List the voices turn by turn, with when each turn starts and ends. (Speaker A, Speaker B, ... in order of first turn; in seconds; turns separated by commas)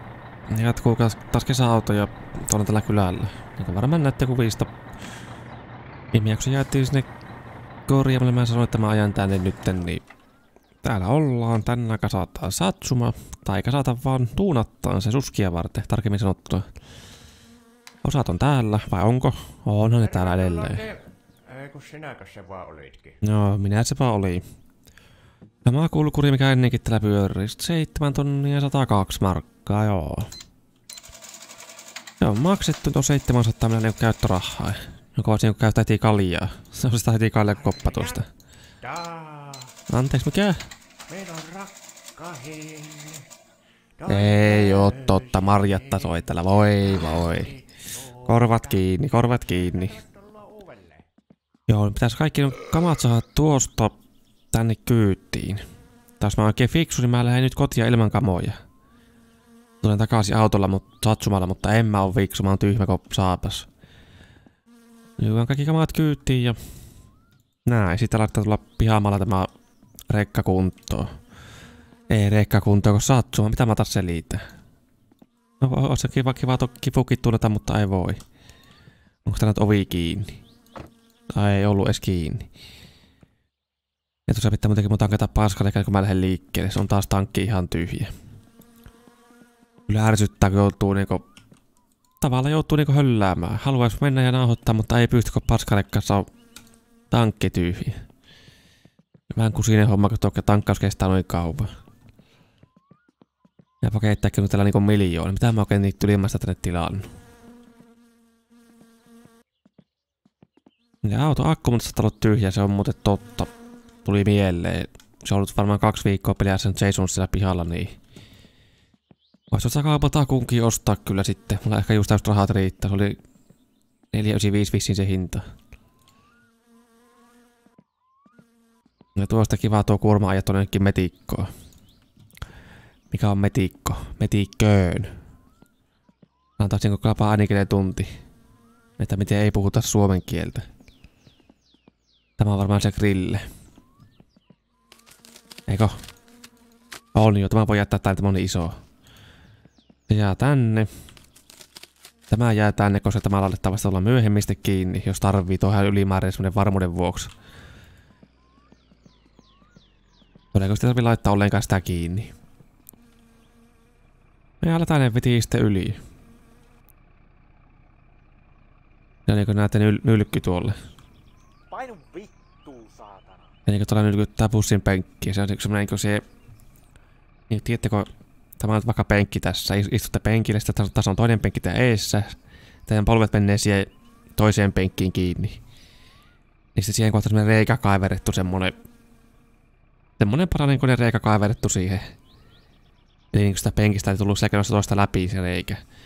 Speaker A: 0.5-4.7, Speaker A: 6.1-7.1, Speaker A: 7.9-10.0, Speaker A: 10.8-16.7, Speaker A: 18.0-20.9, Speaker B: 20.2-23.2, Speaker A: 23.2-24.4, Speaker A: 25.6-30.3, Speaker A: 32.2-38.3, Speaker B: 38.8-39.7, Speaker A: 39.9-40.6, Speaker B: 41.1-43.3, Speaker B: 44.0-45.1, Speaker A: 44.1-47.5, Speaker B: 47.6-48.4, Speaker A: 48.2-50.0, Speaker B: 49.8-51.0, Speaker A: 51.7-54.0, Speaker A: 54.5-55.6, Speaker A: 56.2-58.6, Speaker A: 59.8-63.7, Speaker A: 65.2-66.6, Speaker A: 67.7-69.5, Speaker A: 70.1-71.0, Speaker A: 72.1-74.4, Speaker A: 75.6-78.2, Speaker A: 79.2-80.4, Speaker A: 81.3-82.5, Speaker A: 84.3-88.1, Speaker A: 89.9-91.2, Speaker A: 92.2-96.2, Speaker A: 97.1-98.0, Speaker A: 99.3-101.7, Speaker A: 103.8-107.0, Speaker A: 111.0-113.5, Speaker A: 114.0-118.0, Speaker A: 119.5-123.2, Speaker A: 124.1-125.4, Speaker A: 129.2-131.5, Speaker A: 133.1-135.1, Speaker A: 136.6-138.1, Speaker A: 139.0-140.6, Speaker A: 142.4-143.4, Speaker A: 145.7-146.0, Speaker A: 147.1-148.7, Speaker A: 150.1-150.9, Speaker A: 152.3-157.3, Speaker A: 160.5-162.3, Speaker A: 164.6-166.0, Speaker A: 169.3-170.7, Speaker B: 171.7-173.4, Speaker A: 173.7-176.2, Speaker A: 177.5-185.6, Speaker A: 186.7-188.7, Speaker A: 190.2-192.0, Speaker A: 193.3-195.8